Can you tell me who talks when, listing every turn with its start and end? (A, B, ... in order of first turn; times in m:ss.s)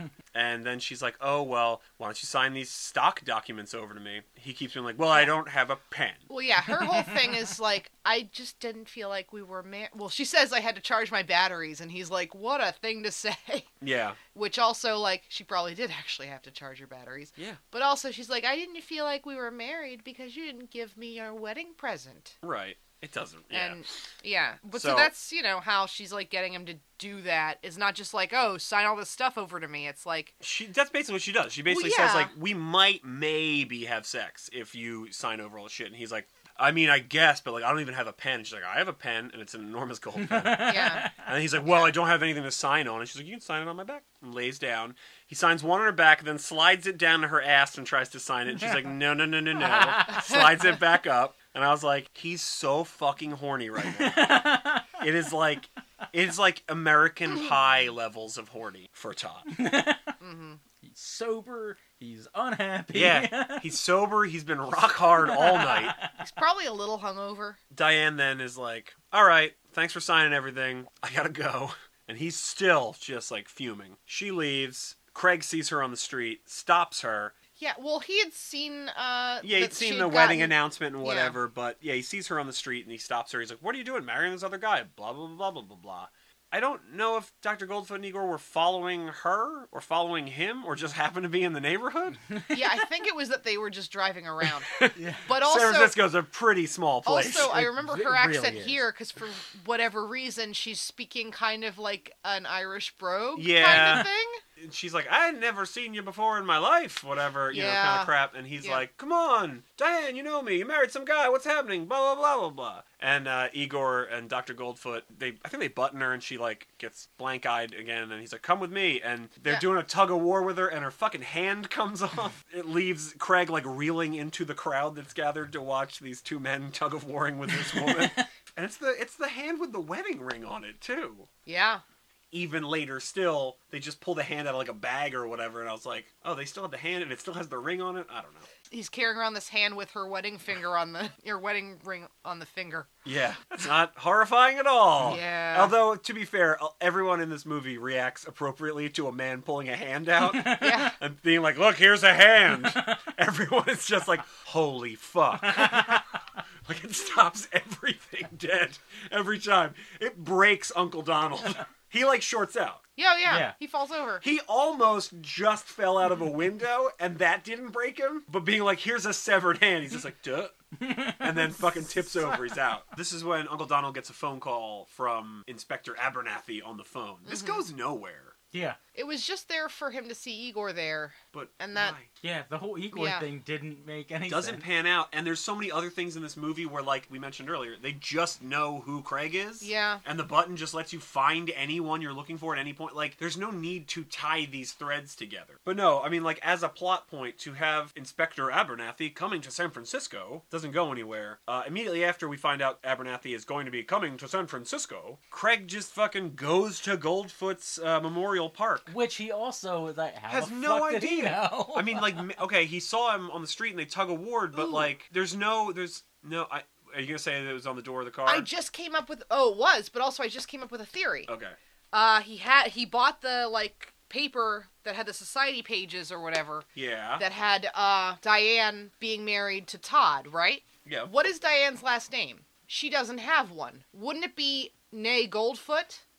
0:00.3-0:06.3 A
0:06.3-0:13.7 B
0:13.8-0:14.2 A
0:14.3-0:22.4 B
0:22.4-0:23.8 A
0:23.5-0:30.3 B
0:24.7-0:25.1 A
0:30.4-0:59.5 A
0:31.7-0:32.3 B
0:40.2-0:41.3 C
0:40.6-0:41.1 B
0:49.6-0:50.2 C
0:53.8-0:55.0 C
0:59.5-1:00.2 C
1:00.2-1:00.6 B
1:00.8-1:03.7 C
1:02.9-1:06.0 A
1:05.2-1:06.2 C
1:06.2-1:07.6 B
1:07.7-1:17.3 A
1:17.6-1:21.4 B
1:19.4-1:32.2 A
1:32.5-1:36.0 B
1:34.7-1:37.5 A
1:35.0-1:35.3 C
1:37.1-1:44.4 B
1:37.4-1:38.8 C
1:43.4-2:11.3 A
1:47.5-1:48.8 B
2:07.5-2:08.2 C
2:11.5-2:11.8 B
2:12.3-2:18.5 A
2:18.7-2:22.9 B
2:23.0-2:36.1 A
2:25.0-2:25.8 B
2:30.3-2:30.9 C
2:30.5-2:31.0 B
2:35.4-2:36.2 C
2:36.6-2:42.8 A
2:43.0-2:44.2 B
2:43.3-2:43.5 C
2:44.2-2:58.4 A
2:50.8-2:52.6 C
2:57.3-2:57.7 B
2:58.5-2:58.8 C
2:58.9-3:02.0 B
3:01.3-3:02.1 A
3:02.2-3:04.7 C
3:02.9-3:03.3 B
3:04.3-3:28.9 A
3:09.6-3:10.0 B
3:28.9-3:32.4 C
3:30.3-3:38.5 A
3:34.6-3:34.9 B
3:38.3-3:41.3 B
3:41.3-3:41.6 A
3:41.9-3:46.7 B
3:46.8-3:47.2 A
3:47.2-3:56.0 B
3:50.8-3:51.1 A